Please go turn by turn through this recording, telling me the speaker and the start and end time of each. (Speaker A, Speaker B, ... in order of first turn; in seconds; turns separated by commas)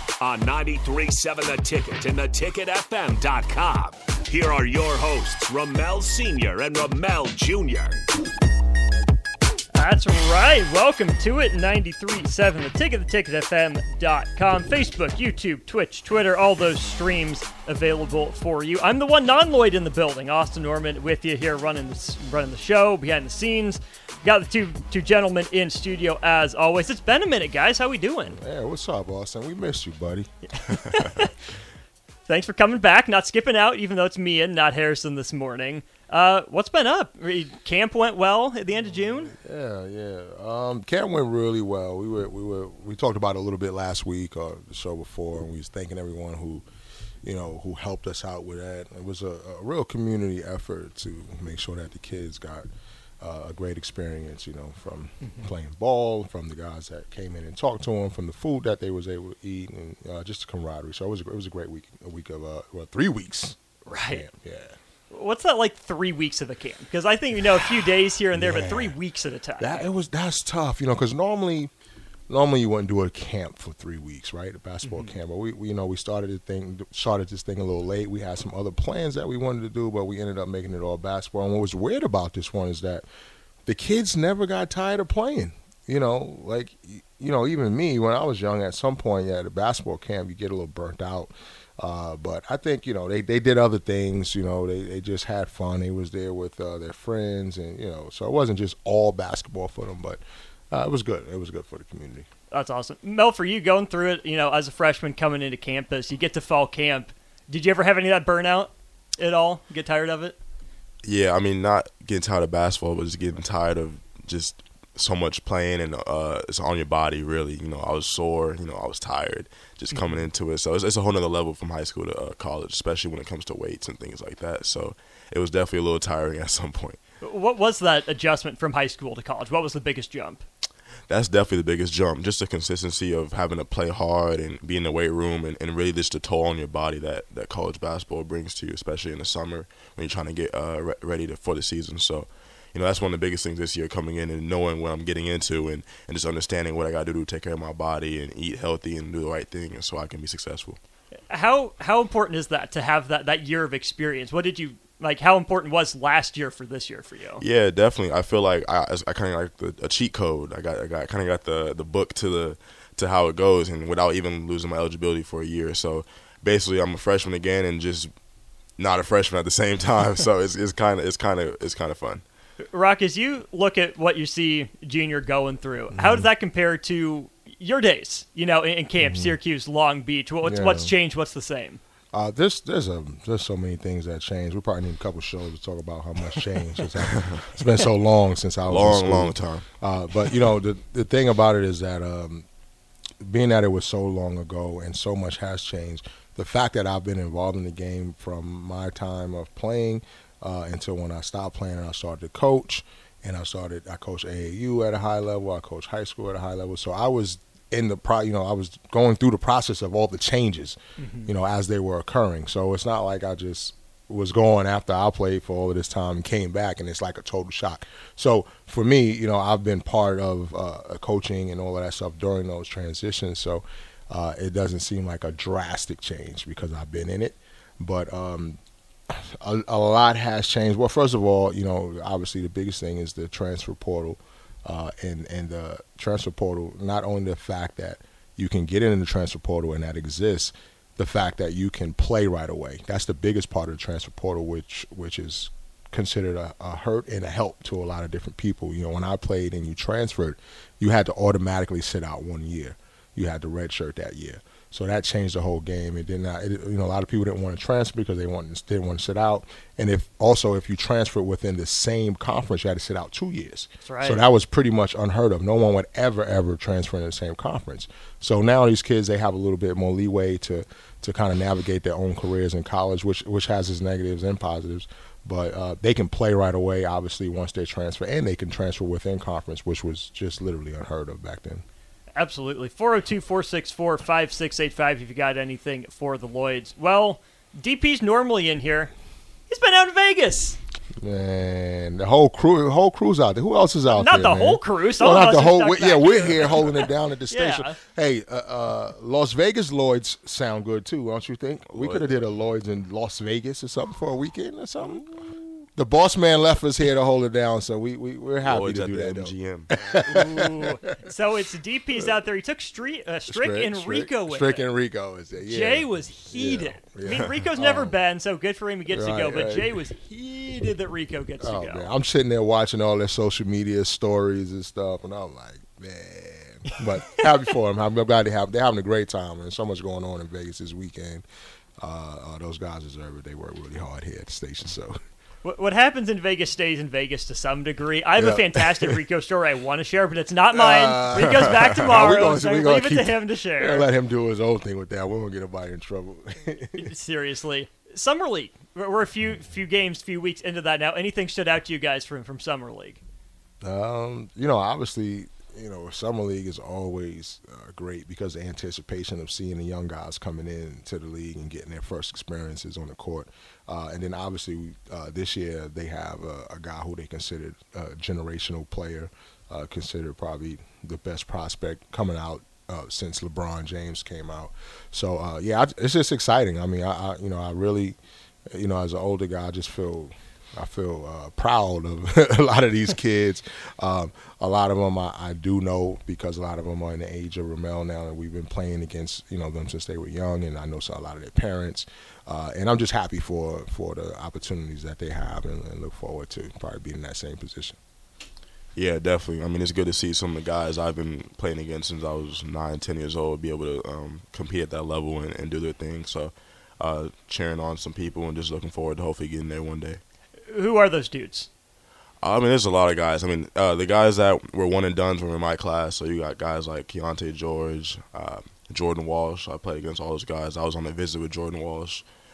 Speaker A: 0.2-8.0, Speaker B: 9.7-28.4, Speaker C: 28.3-30.3, Speaker B: 30.7-31.3, Speaker B: 32.3-39.3, Speaker C: 39.3-46.6, Speaker C: 47.2-52.7, Speaker C: 53.2-64.8, Speaker B: 63.9-64.2, Speaker B: 65.1-69.8, Speaker C: 68.3-68.9, Speaker C: 69.6-71.7, Speaker C: 72.3-83.0, Speaker B: 74.8-75.1, Speaker C: 83.7-102.3, Speaker B: 102.5-110.3, Speaker D: 111.0-127.0, Speaker B: 119.9-120.2, Speaker B: 127.2-130.4, Speaker D: 131.1-150.8, Speaker B: 151.3-157.4, Speaker D: 157.4-168.1, Speaker D: 168.8-172.2, Speaker B: 172.7-181.8, Speaker C: 175.9-176.3, Speaker C: 179.0-179.4, Speaker C: 180.4-180.9, Speaker C: 182.1-192.4, Speaker D: 187.0-187.4, Speaker D: 188.7-189.7, Speaker C: 193.2-281.6, Speaker B: 211.0-211.3, Speaker B: 263.8-264.2, Speaker B: 282.1-288.9, Speaker B: 289.5-290.6, Speaker C: 291.0-305.0, Speaker B: 293.9-297.8, Speaker D: 301.7-302.1, Speaker C: 305.7-310.9, Speaker D: 308.4-309.7, Speaker B: 310.0-314.6, Speaker C: 313.3-318.0, Speaker B: 315.4-321.9, Speaker C: 318.9-319.8, Speaker C: 321.4-331.2, Speaker B: 326.7-327.2, Speaker C: 331.8-335.0, Speaker B: 335.4-343.9, Speaker C: 338.2-339.0, Speaker C: 340.5-346.9, Speaker B: 346.8-353.0, Speaker C: 353.6-378.0, Speaker C: 378.5-397.8, Speaker D: 398.7-410.0, Speaker B: 410.5-411.5, Speaker D: 412.2-422.0